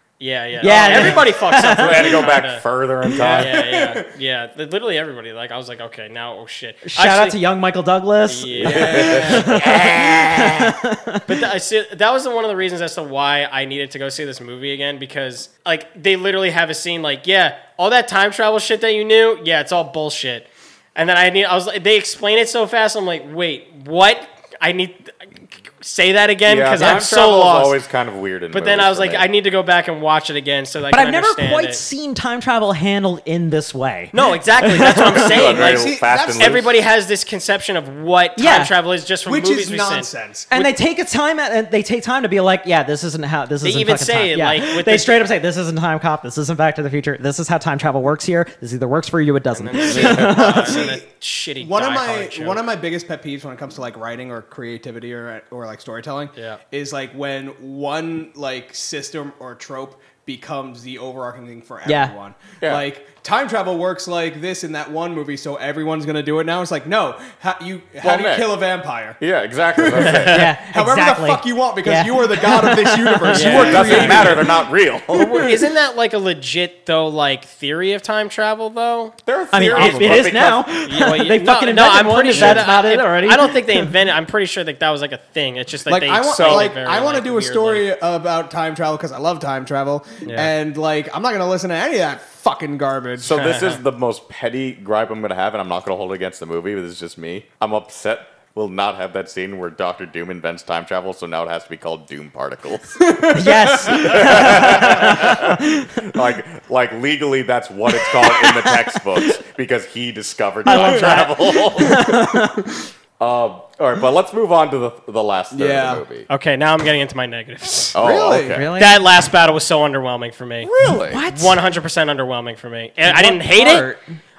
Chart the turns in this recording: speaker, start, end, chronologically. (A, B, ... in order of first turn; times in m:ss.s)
0:00.2-0:02.6 A
0:00.6-0:02.2 B
0:00.6-0:03.8 C
0:03.2-0:04.1 D
0:03.2-0:07.4 A
0:06.8-0:11.4 B
0:08.2-0:09.8 A
0:08.6-0:10.7 C
0:11.3-0:27.8 A
0:26.4-0:29.2 C
0:28.5-0:31.8 A
0:30.9-0:35.4 B
0:34.1-0:40.1 A
0:35.1-0:36.7 C
0:35.5-0:36.7 D
0:38.4-0:38.7 B
0:39.2-0:40.6 D
0:40.5-0:50.9 B
0:43.6-0:45.2 A
0:49.5-0:52.6 A
0:49.9-0:50.2 C
0:50.0-0:51.0 D
0:51.6-1:09.2 D
0:56.3-0:56.6 A
1:01.8-1:02.1 B
1:08.0-1:08.6 C
1:09.2-1:10.5 C
1:09.8-1:14.6 D
1:10.0-1:10.3 A
1:10.2-1:14.1 B
1:13.3-1:14.5 A
1:13.4-1:15.4 C
1:15.1-1:20.2 A
1:15.2-1:15.5 D
1:19.2-1:20.7 C
1:19.5-1:23.9 B
1:20.8-1:27.9 A
1:22.3-1:22.7 D
1:25.9-1:33.4 D
1:26.3-1:26.7 C
1:30.2-1:30.5 A
1:33.2-1:43.0 C
1:33.3-1:33.8 A
1:43.0-1:44.3 D
1:43.3-1:46.2 B
1:43.8-1:52.2 C
1:48.1-1:49.0 B
1:50.6-1:52.7 B
1:50.7-1:51.2 D
1:51.9-1:52.6 D
1:53.2-1:56.3 C
1:55.5-1:56.0 D
1:56.3-1:58.0 A
1:57.9-1:58.6 C
1:58.0-1:58.6 D
1:58.4-1:59.0 B
1:58.8-2:00.7 A
2:00.6-2:01.2 C
2:00.8-2:01.6 B
2:01.2-2:03.9 A
2:03.0-2:04.0 B